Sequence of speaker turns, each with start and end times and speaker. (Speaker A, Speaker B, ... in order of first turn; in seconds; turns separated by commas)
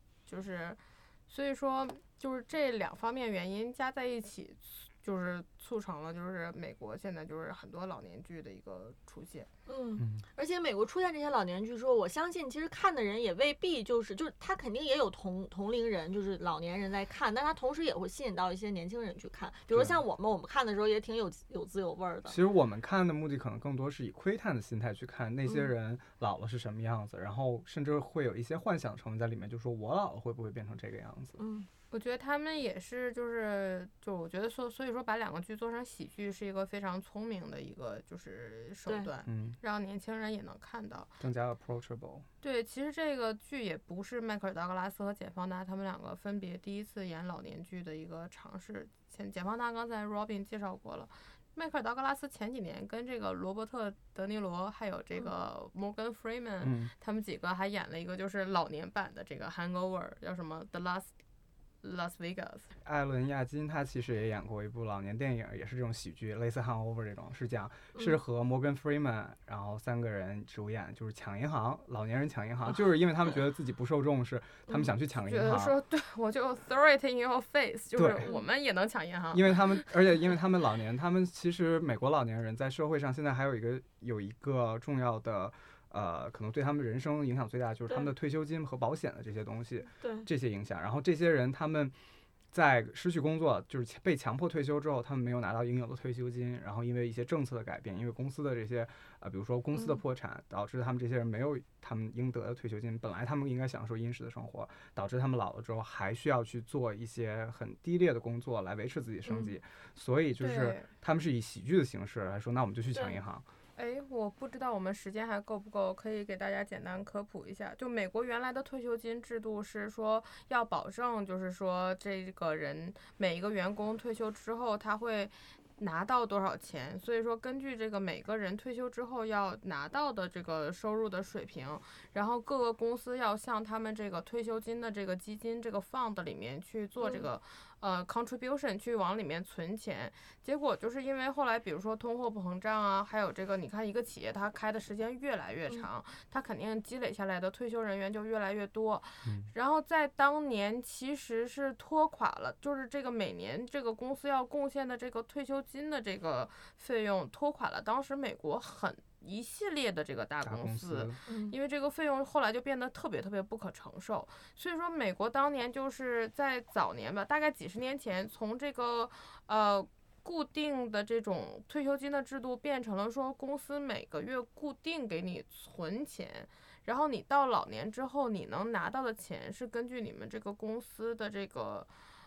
Speaker A: 0.3-9.5, Speaker B: 9.7-22.4, Speaker C: 10.0-10.2, Speaker C: 19.7-20.0, Speaker C: 22.3-31.4, Speaker B: 31.4-31.7, Speaker A: 31.9-41.1, Speaker C: 39.3-39.6, Speaker C: 41.2-42.3, Speaker A: 42.4-61.1, Speaker C: 56.6-56.9, Speaker A: 61.8-62.7, Speaker C: 62.8-75.7, Speaker A: 75.2-79.9, Speaker C: 78.0-78.3, Speaker C: 79.3-91.9, Speaker B: 90.0-90.3, Speaker C: 92.5-113.4, Speaker B: 109.2-109.5, Speaker A: 110.4-110.9, Speaker A: 113.8-181.9, Speaker B: 137.0-137.3, Speaker C: 149.2-149.5, Speaker C: 160.4-161.2, Speaker B: 161.3-161.5